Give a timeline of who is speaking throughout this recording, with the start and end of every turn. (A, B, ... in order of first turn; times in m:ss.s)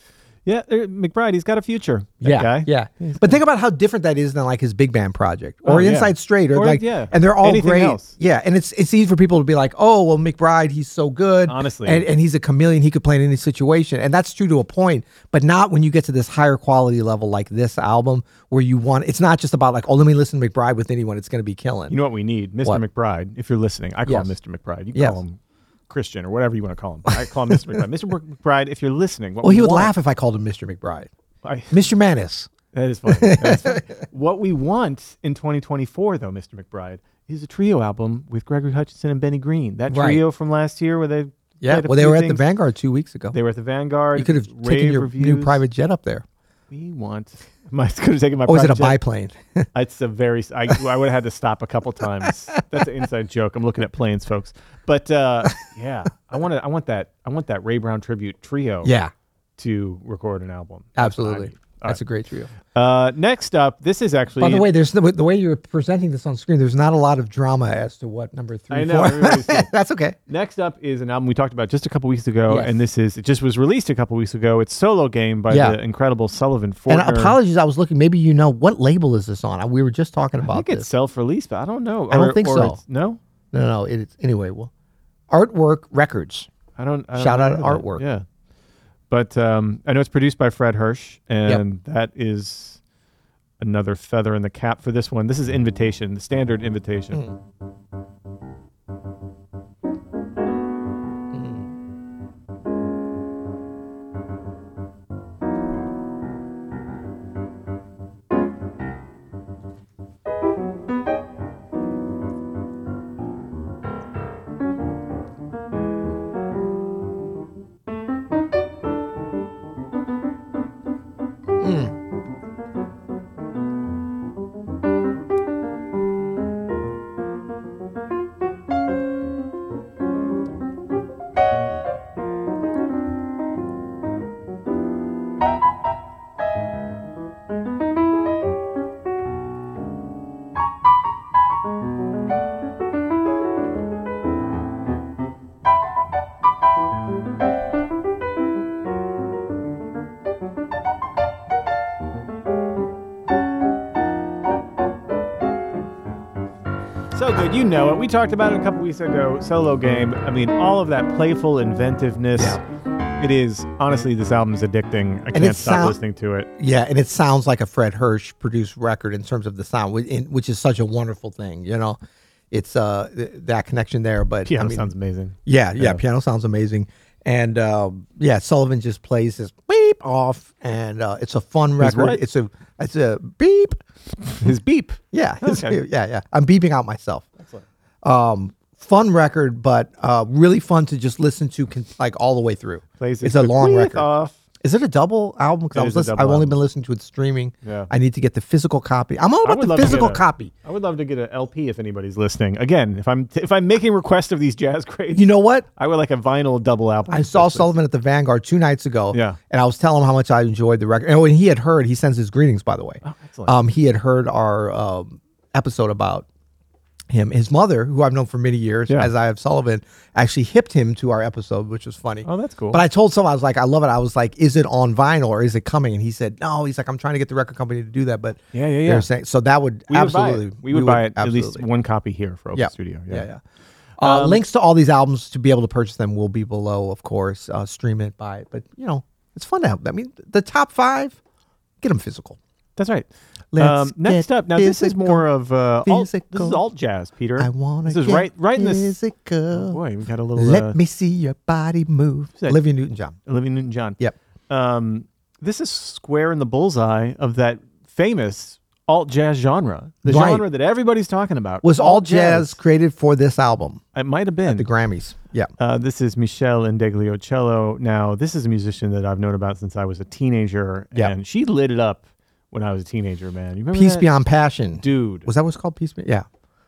0:00.4-0:02.7 A
0:02.2-0:21.9 B
0:05.6-0:08.1 A
0:11.5-0:12.1 A
0:21.9-0:29.9 A
0:24.0-0:24.3 B
0:24.9-0:25.2 B
0:27.1-0:27.8 B
0:29.4-0:31.1 B
0:31.4-0:31.8 A
0:31.7-0:32.5 B
0:32.7-0:42.4 A
0:33.1-0:33.9 B
0:39.9-0:40.2 B
0:41.6-0:43.4 B
0:43.3-0:45.6 A
0:44.2-0:46.2 B
0:46.7-0:49.0 A
0:48.4-0:49.7 B
0:49.7-0:58.9 A
0:58.8-0:59.1 B
0:59.6-1:02.0 A
1:01.0-1:02.5 B
1:02.7-1:04.7 A
1:04.4-1:10.2 B
1:08.7-1:09.7 A
1:10.3-1:17.4 A
1:12.5-1:12.8 B
1:15.5-1:15.8 B
1:16.9-1:20.9 B
1:20.4-1:23.2 A
1:22.1-1:22.8 B
1:23.5-1:24.7 B
1:25.3-1:26.5 B
1:26.8-1:28.2 A
1:27.2-1:28.1 B
1:29.1-1:32.8 A
1:33.6-1:37.2 A
1:41.3-1:41.6 B
2:01.6-2:01.9 B
2:37.1-2:42.6 A
2:42.4-2:42.6 B
2:43.2-2:46.5 A
2:45.3-2:46.0 B
2:46.6-2:52.0 B
2:52.5-2:54.9 B
2:54.4-2:56.0 A
2:55.4-3:03.8 B
3:01.8-3:02.2 A
3:04.4-3:05.8 A
3:05.1-3:07.3 B
3:07.4-3:07.6 A
3:08.0-3:14.1 B
3:13.0-3:14.4 A
3:14.6-3:20.5 B
3:15.7-3:16.6 A
3:17.6-3:17.9 A
3:19.4-3:27.7 A
3:25.1-3:25.6 B
3:27.1-3:36.2 B
3:29.1-3:29.4 A
3:33.0-3:33.5 A
3:37.1-3:51.6 B
3:42.2-3:42.8 A
3:48.5-3:49.1 A
3:49.9-3:53.3 A
3:52.5-3:53.4 B
3:54.0-4:01.2 B
3:54.0-3:54.4 A
4:01.8-4:02.4 B
4:02.8-4:09.0 A
4:03.5-4:05.3 B
4:05.8-4:06.6 B
4:07.4-4:09.8 B
4:09.5-4:10.8 A
4:10.4-4:13.2 B
4:13.2-4:22.6 A
4:20.0-4:20.4 B
4:21.6-4:23.8 B
4:23.9-4:24.6 A
4:24.4-4:25.5 B
4:25.6-4:34.1 A
4:33.7-4:36.2 B
4:34.8-4:35.3 A